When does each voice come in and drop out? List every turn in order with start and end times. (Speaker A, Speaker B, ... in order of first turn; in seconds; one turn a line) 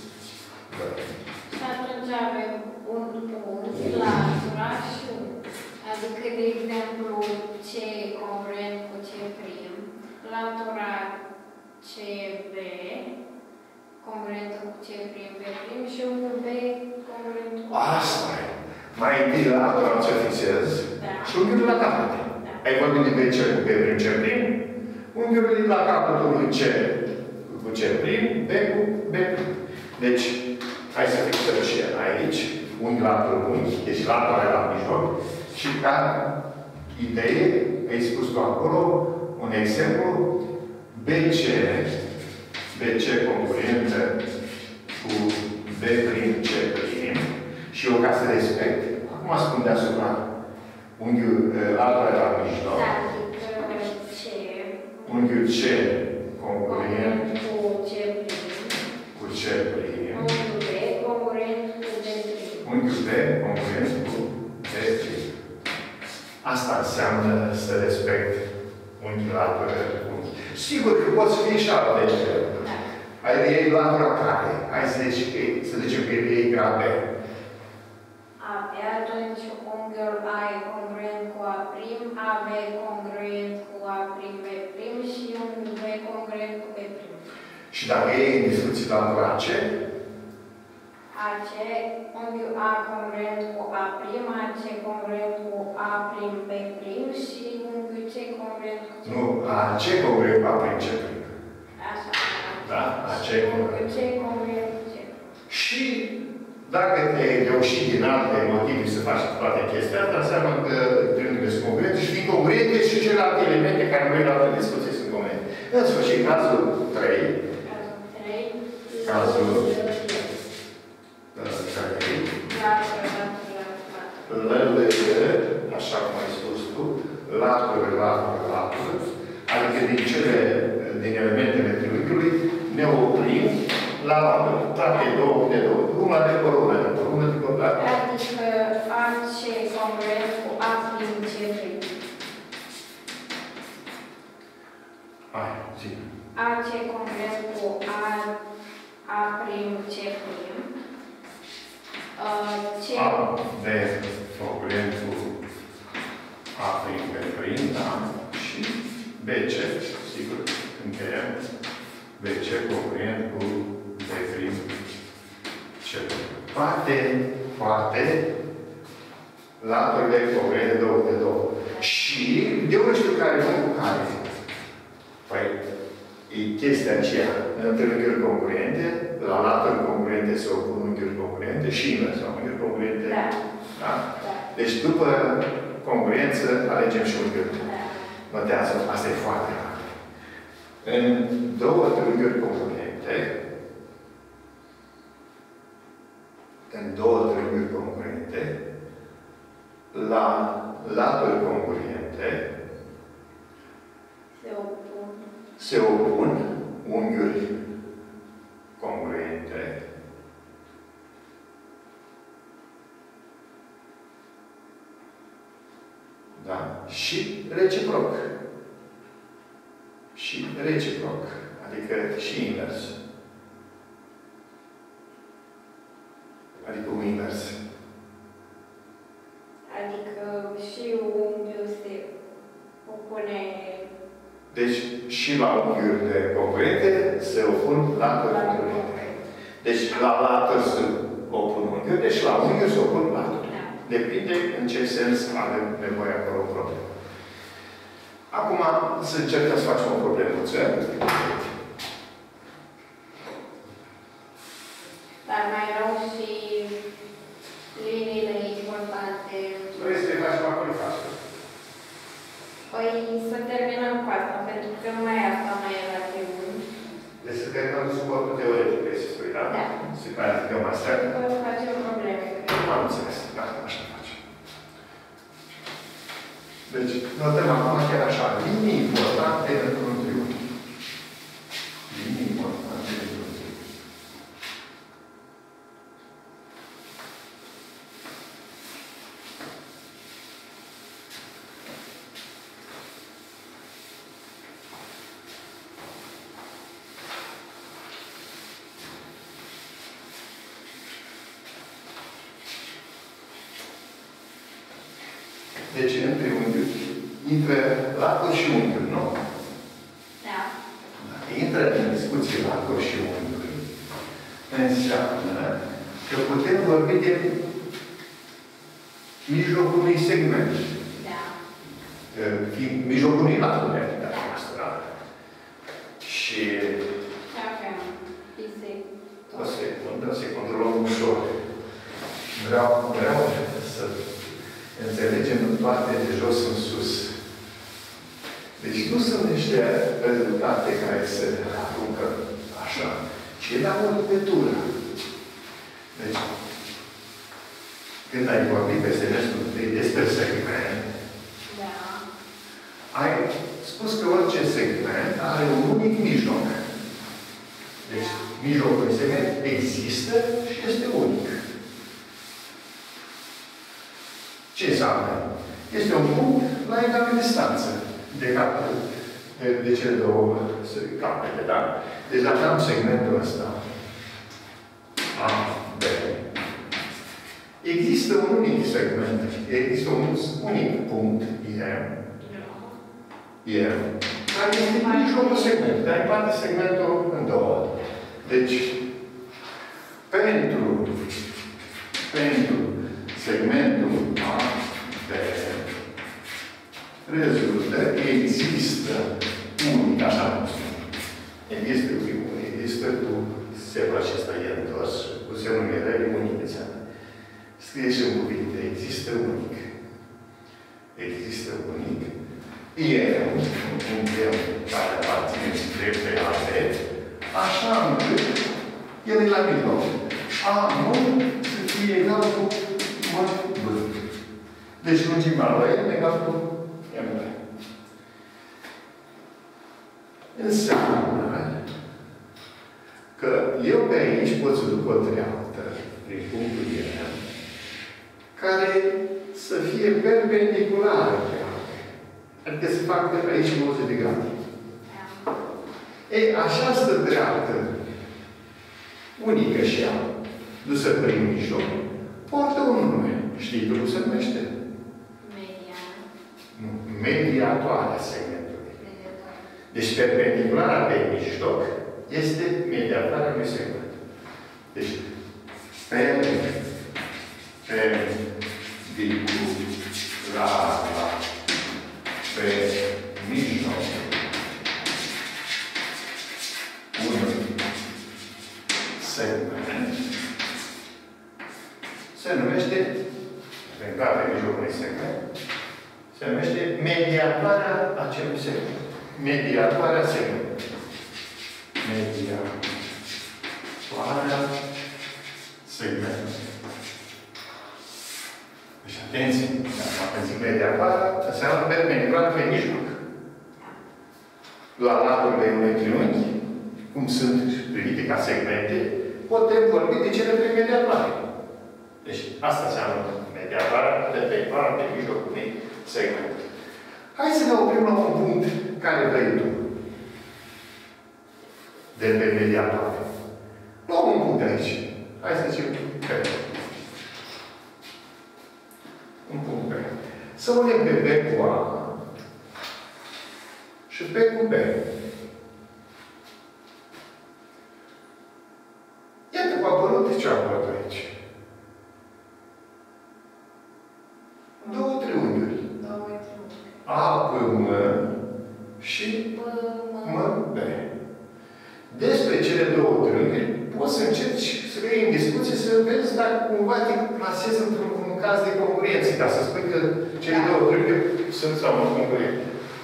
Speaker A: 0.7-1.1
Speaker B: 1.5-11.2
Speaker A: 3.7-4.3
Speaker B: 11.8-13.1
Speaker B: 14.0-18.2
Speaker A: 17.7-24.6
Speaker B: 21.0-21.3
Speaker A: 25.1-36.4
Speaker A: 36.9-40.3
Speaker A: 40.9-41.9
Speaker A: 42.7-44.2
Speaker A: 45.0-50.2
Speaker A: 51.0-52.9
Speaker B: 52.7-55.4
Speaker A: 55.0-57.2
Speaker B: 56.6-58.8
Speaker A: 59.1-60.3
Speaker B: 60.1-62.7
Speaker A: 62.6-65.3
Speaker A: 66.4-68.5
Speaker A: 69.0-72.7
Speaker A: 73.2-77.1
Speaker B: 78.4-87.3
Speaker A: 87.7-89.7
Speaker B: 91.1-99.6
Speaker A: 99.0-101.3
Speaker B: 101.8-105.2
Speaker A: 102.6-103.8
Speaker A: 105.5-117.4
Speaker B: 117.6-120.4
Speaker A: 119.0-119.7
Speaker A: 121.3-122.4
Speaker B: 122.4-124.6
Speaker A: 124.3-138.0
Speaker B: 137.8-141.9
Speaker A: 145.3-146.0
Speaker B: 146.3-148.3
Speaker B: 149.1-150.7
Speaker B: 152.2-153.2
Speaker A: 152.9-155.4
Speaker A: 156.6-161.4
Speaker A: 162.2-164.8
Speaker A: 165.8-168.3
Speaker A: 169.6-174.2
Speaker A: 175.2-175.6
Speaker A: 176.3-187.7
Speaker B: 183.0-183.4
Speaker B: 184.2-184.5
Speaker B: 187.5-188.1
Speaker A: 188.3-189.9
Speaker A: 190.8-193.3
Speaker A: 196.7-198.6
Speaker A: 199.9-202.4
Speaker B: 204.3-205.2
Speaker A: 205.6-207.5
Speaker A: 208.8-209.8
Speaker A: 216.3-218.3
Speaker A: 220.1-223.0
Speaker A: 226.6-227.6
Speaker B: 229.7-232.1
Speaker B: 232.8-233.9
Speaker A: 234.5-239.0
Speaker B: 237.9-239.2
Speaker A: 239.6-246.9
Speaker B: 243.5-243.7
Speaker A: 248.3-251.5
Speaker B: 255.2-256.8
Speaker B: 257.7-259.9
Speaker A: 259.7-261.2
Speaker B: 262.7-266.7
Speaker A: 267.2-271.0
Speaker B: 269.5-269.7
Speaker B: 270.8-272.9
Speaker A: 272.5-274.2
Speaker A: 276.7-280.4
Speaker A: 281.9-283.6
Speaker A: 305.7-309.2
Speaker B: 310.2-310.5
Speaker A: 311.0-313.6
Speaker A: 314.5-317.5
Speaker A: 319.2-320.7
Speaker B: 320.9-321.4
Speaker A: 322.1-324.8
Speaker B: 324.1-324.4
Speaker A: 326.0-326.9
Speaker B: 327.3-329.6
Speaker A: 329.3-331.2
Speaker A: 332.3-334.1
Speaker A: 334.7-337.1
Speaker A: 338.6-344.7
Speaker A: 345.9-346.4
Speaker A: 348.1-350.9
Speaker B: 351.5-352.0
Speaker A: 352.9-356.6
Speaker B: 357.8-358.3
Speaker A: 357.9-361.4
Speaker A: 364.5-368.8
Speaker A: 369.3-373.6
Speaker A: 375.1-376.2
Speaker A: 377.6-382.0
Speaker B: 382.2-382.8
Speaker A: 383.4-388.8
Speaker B: 384.3-385.6
Speaker A: 390.1-391.0
Speaker A: 392.1-395.7
Speaker A: 397.1-400.8
Speaker A: 401.5-406.8
Speaker A: 407.6-409.7
Speaker A: 410.9-412.1
Speaker A: 412.7-416.8
Speaker A: 417.3-418.4
Speaker A: 419.0-424.0
Speaker A: 424.8-427.4
Speaker A: 430.3-431.5
Speaker A: 433.2-437.2
Speaker A: 438.4-441.8
Speaker A: 442.4-444.4
Speaker B: 444.9-445.4
Speaker A: 446.1-447.7
Speaker A: 449.2-450.1
Speaker A: 450.6-451.7
Speaker A: 452.2-454.5
Speaker B: 455.2-456.1
Speaker A: 456.5-458.8
Speaker B: 458.8-459.4
Speaker A: 459.7-463.9
Speaker A: 464.7-465.0
Speaker A: 465.9-466.6
Speaker A: 467.6-468.2
Speaker A: 468.8-469.7
Speaker A: 470.2-471.2
Speaker A: 472.2-474.4
Speaker A: 476.9-477.5
Speaker A: 478.9-480.0
Speaker A: 482.1-483.0
Speaker A: 483.6-485.2
Speaker A: 486.1-490.5
Speaker A: 491.8-492.7
Speaker A: 493.9-494.5
Speaker A: 495.6-496.5
Speaker A: 498.8-503.0
Speaker A: 504.8-506.4
Speaker A: 506.9-511.2
Speaker A: 512.0-516.5
Speaker A: 517.1-519.6
Speaker A: 521.9-523.0
Speaker A: 523.9-526.8
Speaker A: 529.2-532.0
Speaker A: 533.9-534.8
Speaker A: 539.3-541.1
Speaker B: 544.6-546.8
Speaker A: 544.6-545.6
Speaker A: 546.8-548.1
Speaker A: 548.8-549.3
Speaker B: 549.3-550.3
Speaker A: 550.0-550.9
Speaker A: 551.9-562.5
Speaker B: 560.2-560.6